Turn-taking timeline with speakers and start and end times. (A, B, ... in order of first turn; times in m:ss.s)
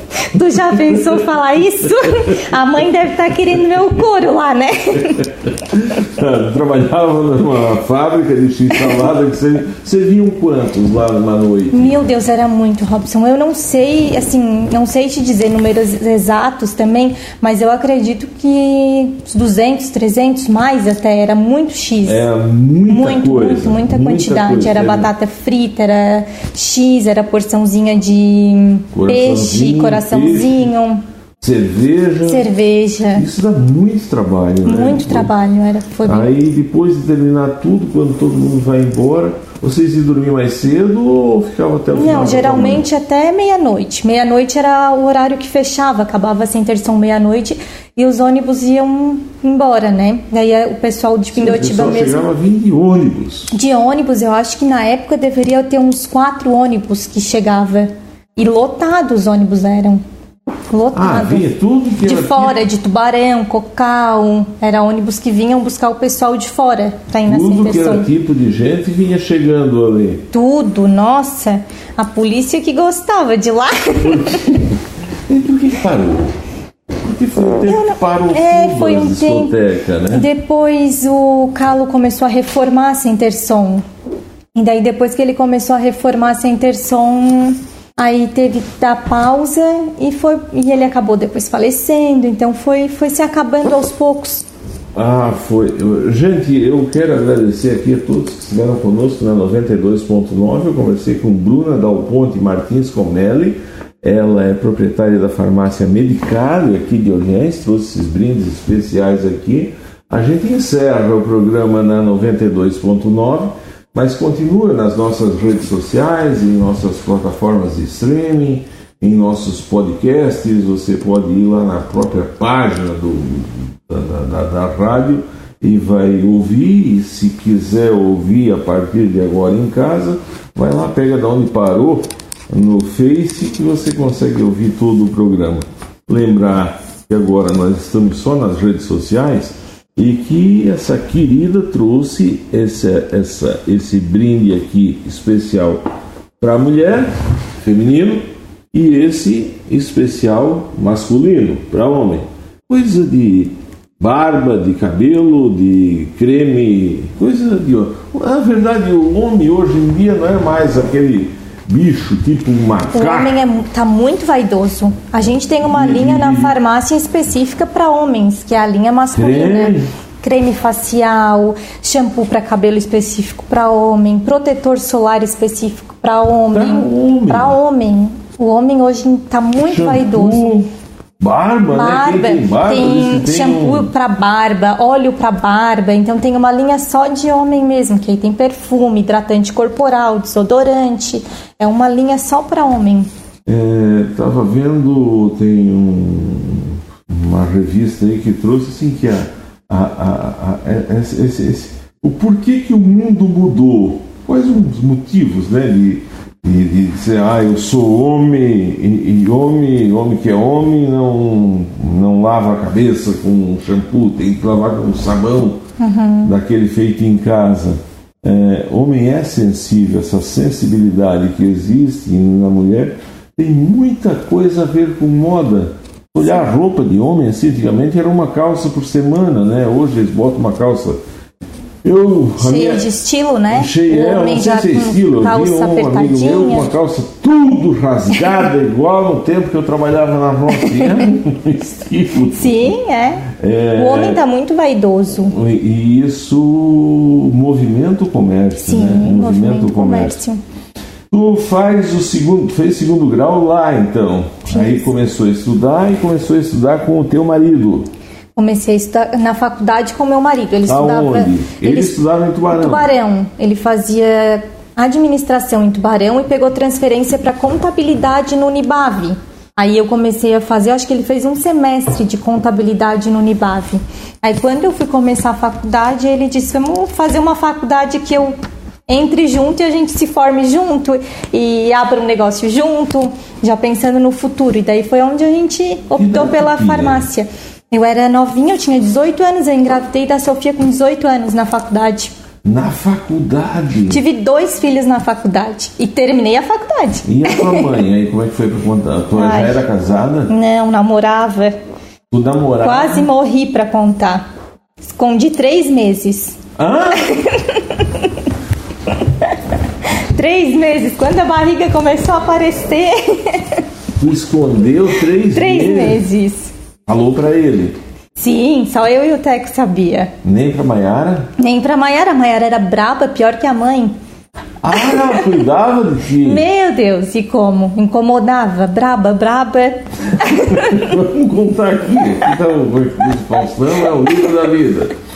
0:00.3-0:05.3 A
0:00.7-0:01.3 B
0:02.0-0:02.4 B
0:05.2-0:12.0 B
0:11.7-0:22.2 A
0:22.0-0:25.1 B
0:22.9-0:31.0 A
0:28.9-0:30.6 B
0:31.4-0:32.5 B
0:32.2-0:33.2 A
0:33.1-0:35.3 B
0:34.6-0:36.3 A
0:36.0-0:42.8 B
0:41.9-0:52.2 A
0:51.3-0:53.5 B
0:53.5-1:00.0 A
1:00.7-1:01.5 A
1:00.9-1:02.6 B
1:02.0-1:08.1 A
1:07.2-1:10.2 B
1:10.3-1:14.5 A
1:14.0-1:14.8 B
1:15.3-1:16.3 B
1:17.0-1:20.3 B
1:17.7-1:19.5 A
1:20.1-1:23.8 A
1:24.5-1:34.5 A
1:34.9-2:25.8 B
2:26.4-2:28.2 B
2:28.7-2:43.4 B
2:42.9-3:00.5 A
2:45.6-2:46.6 B
2:49.1-2:49.9 B
2:56.5-2:57.6 B
2:59.7-3:00.7 B
3:01.2-3:03.9 B
3:01.7-3:13.1 A
3:13.4-3:35.6 B
3:35.8-3:36.3 A
3:36.2-3:51.0 B
3:51.8-3:52.9 B
3:52.4-3:56.7 A
3:53.5-4:02.8 B
4:00.6-4:01.0 A
4:02.3-4:05.3 A
4:03.3-4:04.2 B
4:05.2-4:10.2 B
4:08.6-4:10.4 A
4:11.1-4:17.9 B
4:14.5-4:14.9 A
4:18.4-4:22.0 A
4:20.7-4:22.9 B
4:22.5-4:38.3 A
4:38.9-4:52.1 A
4:46.0-4:47.0 B
4:52.4-4:54.0 B
4:53.9-4:57.7 A
4:57.0-5:00.3 B
4:59.2-4:59.6 A
5:00.3-5:01.6 A
5:02.1-5:03.1 B
5:02.6-5:04.2 A
5:04.8-5:06.4 A
5:06.6-5:07.1 B
5:07.0-5:08.1 A
5:10.0-5:13.6 A
5:14.0-5:16.0 B
5:15.3-5:16.5 A
5:16.9-5:17.8 B
5:18.2-5:20.1 A
5:20.2-5:21.3 B
5:21.4-5:24.0 A
5:24.6-5:26.4 B
5:24.8-5:25.2 A
5:26.2-5:30.9 A
5:30.3-5:34.9 B